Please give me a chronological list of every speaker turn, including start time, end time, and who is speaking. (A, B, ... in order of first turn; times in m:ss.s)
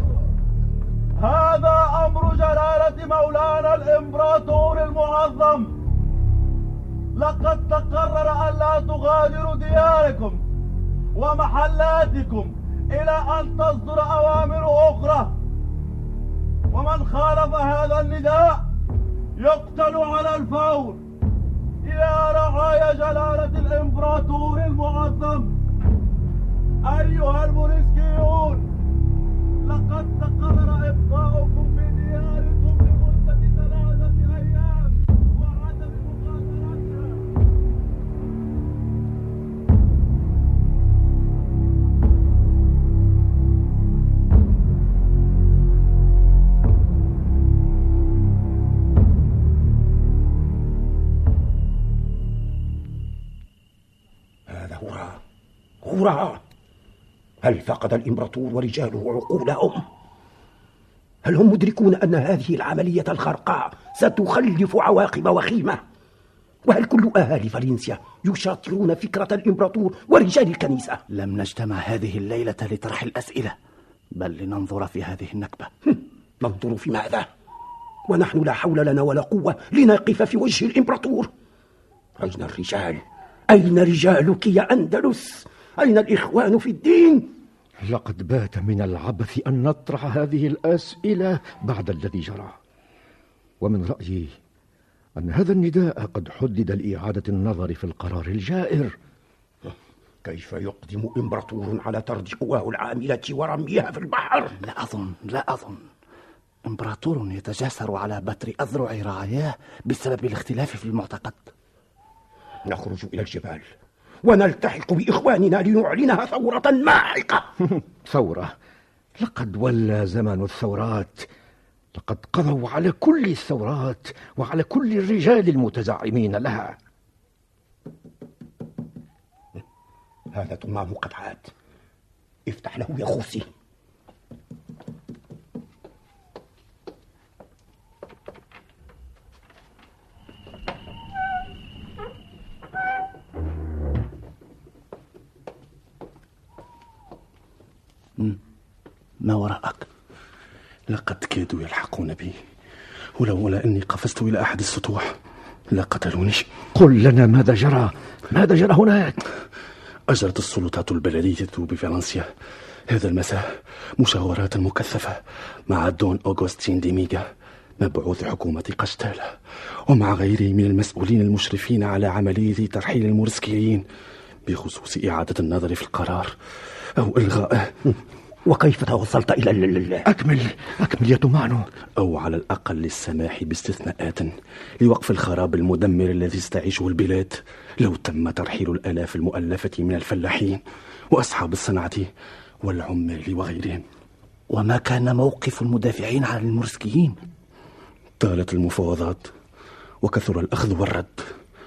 0:01.2-0:05.7 A
0:07.2-0:10.4 A
0:11.2-0:15.4 A
0:16.7-0:18.6 A
0:19.4-0:21.0 A
0:21.8-0:25.5 A
0:26.9-0:28.7 A
0:29.6-0:37.3 A
0:54.5-0:55.2 B
0:55.8-0:56.4 B
0:57.4-0:59.8 B
1:01.2-1:05.8 B
1:06.6-1:11.0 B
1:11.1-1:13.6 C
1:14.2-1:15.7 C
1:16.4-1:17.3 B
1:18.1-1:21.3 B
1:22.2-1:27.3 B
1:27.9-1:32.6 D
1:33.6-1:34.3 D
1:35.2-1:38.9 D
1:40.2-1:44.6 B
1:44.6-1:45.8 C
1:46.6-1:51.5 C
1:52.7-1:53.7 B
1:54.2-1:57.4 B
1:58.0-1:58.5 D
1:59.2-2:01.3 D
2:01.9-2:06.8 D
2:10.3-2:11.5 B
2:12.5-2:13.5 B
2:29.2-2:29.8 C
2:30.9-2:32.3 E
2:33.2-2:35.0 E
2:35.7-2:36.4 E
2:36.8-2:39.2 D
2:40.1-2:42.2 E
2:42.9-2:43.4 E
2:44.0-2:45.2 E
2:45.7-2:47.2 E
2:47.8-2:49.2 E
2:49.9-2:53.8 E
2:54.4-2:56.3 E
2:57.0-2:57.6 E
2:58.4-3:00.0 B
3:00.1-3:01.6 D
3:02.0-3:04.3 E
3:04.8-3:10.6 E
3:11.1-3:12.1 E
3:12.6-3:13.8 E
3:14.5-3:17.2 C
3:18.2-3:19.3 E
3:20.0-3:21.1 E